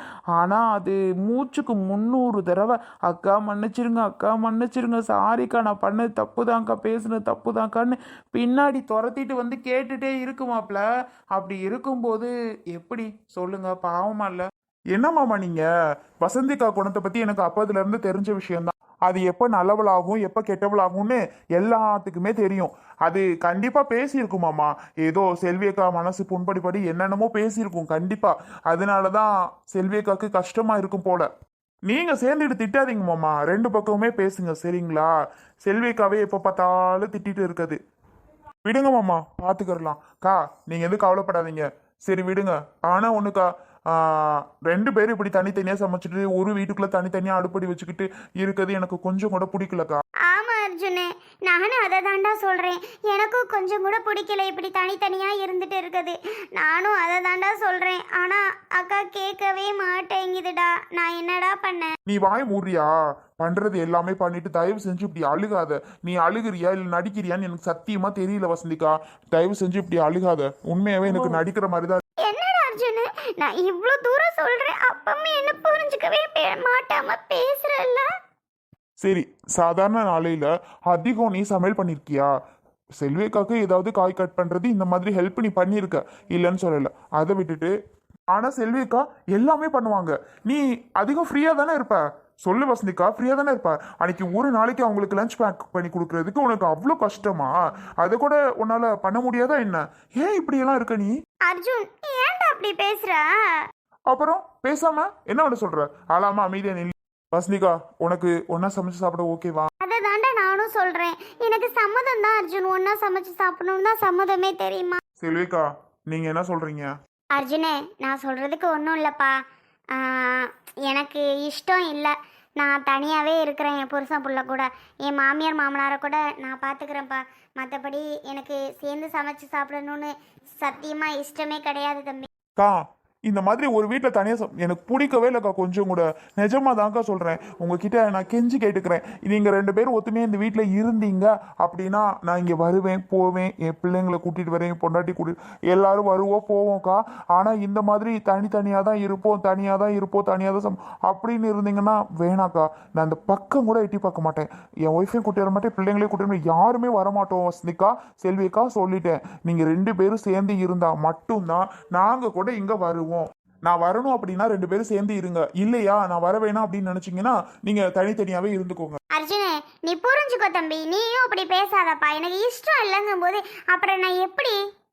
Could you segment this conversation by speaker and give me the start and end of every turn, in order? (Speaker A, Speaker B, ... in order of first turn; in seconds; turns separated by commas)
Speaker A: 0.4-14.4, Speaker B: 14.9-15.6, Speaker B: 16.2-31.3, Speaker B: 31.9-35.1, Speaker B: 35.6-37.8, Speaker B: 38.6-50.0, Speaker C: 50.3-61.9, Speaker B: 62.1-62.9, Speaker B: 63.4-72.0, Speaker C: 72.2-78.1, Speaker B: 79.0-82.3, Speaker B: 83.0-87.7, Speaker B: 88.3-101.1, Speaker C: 101.5-103.6, Speaker B: 104.1-109.7, Speaker C: 109.8-115.0, Speaker B: 115.2-116.9, Speaker C: 117.3-119.3, Speaker C: 119.9-132.3, Speaker B: 132.6-169.0, Speaker C: 169.1-174.6